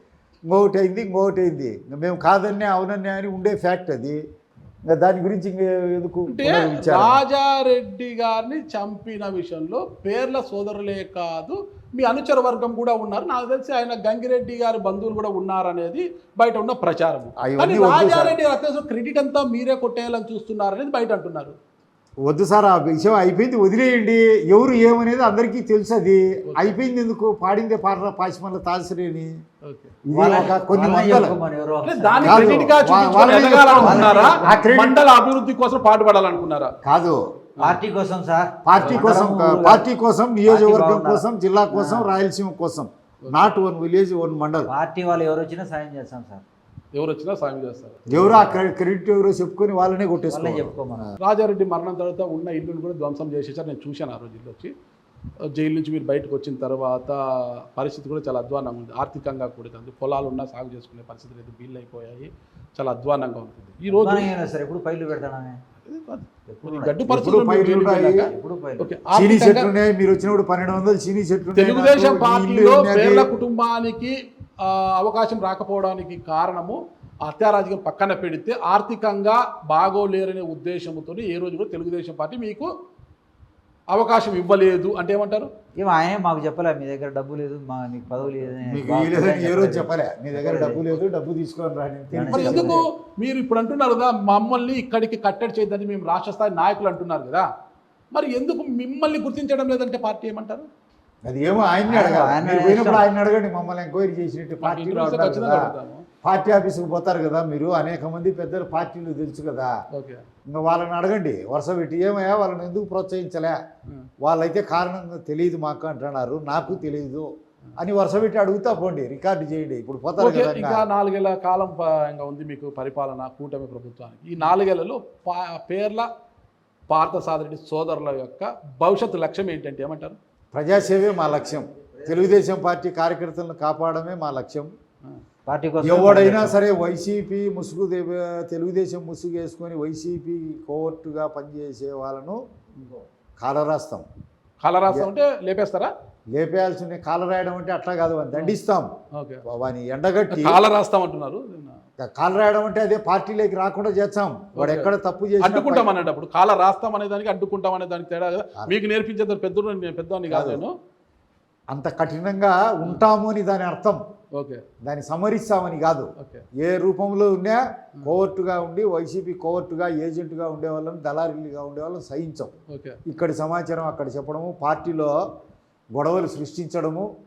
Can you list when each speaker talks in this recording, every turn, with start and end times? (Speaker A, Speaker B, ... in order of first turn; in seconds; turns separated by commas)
Speaker A: 0.5-4.2, Speaker A: 4.8-7.2, Speaker B: 6.3-21.6, Speaker A: 17.4-18.4, Speaker A: 22.2-29.3, Speaker B: 26.5-26.7, Speaker B: 29.6-29.9, Speaker A: 30.1-31.4, Speaker C: 30.1-32.7, Speaker B: 31.8-36.7, Speaker A: 32.2-35.0, Speaker C: 33.8-34.6, Speaker A: 36.8-37.2, Speaker C: 37.6-39.9, Speaker A: 38.6-44.7, Speaker B: 38.8-39.1, Speaker C: 40.5-42.1, Speaker B: 43.2-43.5, Speaker C: 44.7-46.4, Speaker B: 46.9-48.3, Speaker A: 48.1-51.0, Speaker C: 50.2-51.1, Speaker B: 51.2-54.7, Speaker B: 55.5-64.3, Speaker C: 63.9-65.6, Speaker B: 65.8-69.7, Speaker C: 66.5-67.0, Speaker A: 67.1-68.3, Speaker C: 68.3-69.0, Speaker A: 69.1-73.3, Speaker B: 71.5-82.7, Speaker B: 83.9-85.5, Speaker C: 85.7-90.8, Speaker A: 88.6-92.8, Speaker C: 92.1-92.8, Speaker B: 92.3-97.5, Speaker B: 98.1-100.7, Speaker A: 101.2-105.7, Speaker C: 101.9-103.0, Speaker B: 104.6-106.0, Speaker A: 106.2-109.7, Speaker B: 109.9-110.2, Speaker A: 110.5-113.6, Speaker A: 114.2-120.8, Speaker B: 120.2-126.1, Speaker B: 126.9-130.2, Speaker A: 130.5-134.7, Speaker C: 130.9-132.4, Speaker C: 135.4-136.6, Speaker A: 135.8-142.4, Speaker A: 143.4-144.1, Speaker B: 144.6-145.9, Speaker A: 146.3-148.9, Speaker B: 149.2-149.4, Speaker A: 149.5-150.6, Speaker B: 150.3-151.8, Speaker A: 152.0-155.9, Speaker B: 154.6-160.7, Speaker A: 160.3-160.6, Speaker A: 161.7-164.0, Speaker B: 164.3-164.6, Speaker A: 164.8-172.5, Speaker B: 166.2-166.4, Speaker B: 172.7-173.0, Speaker A: 173.1-175.2, Speaker A: 175.9-177.1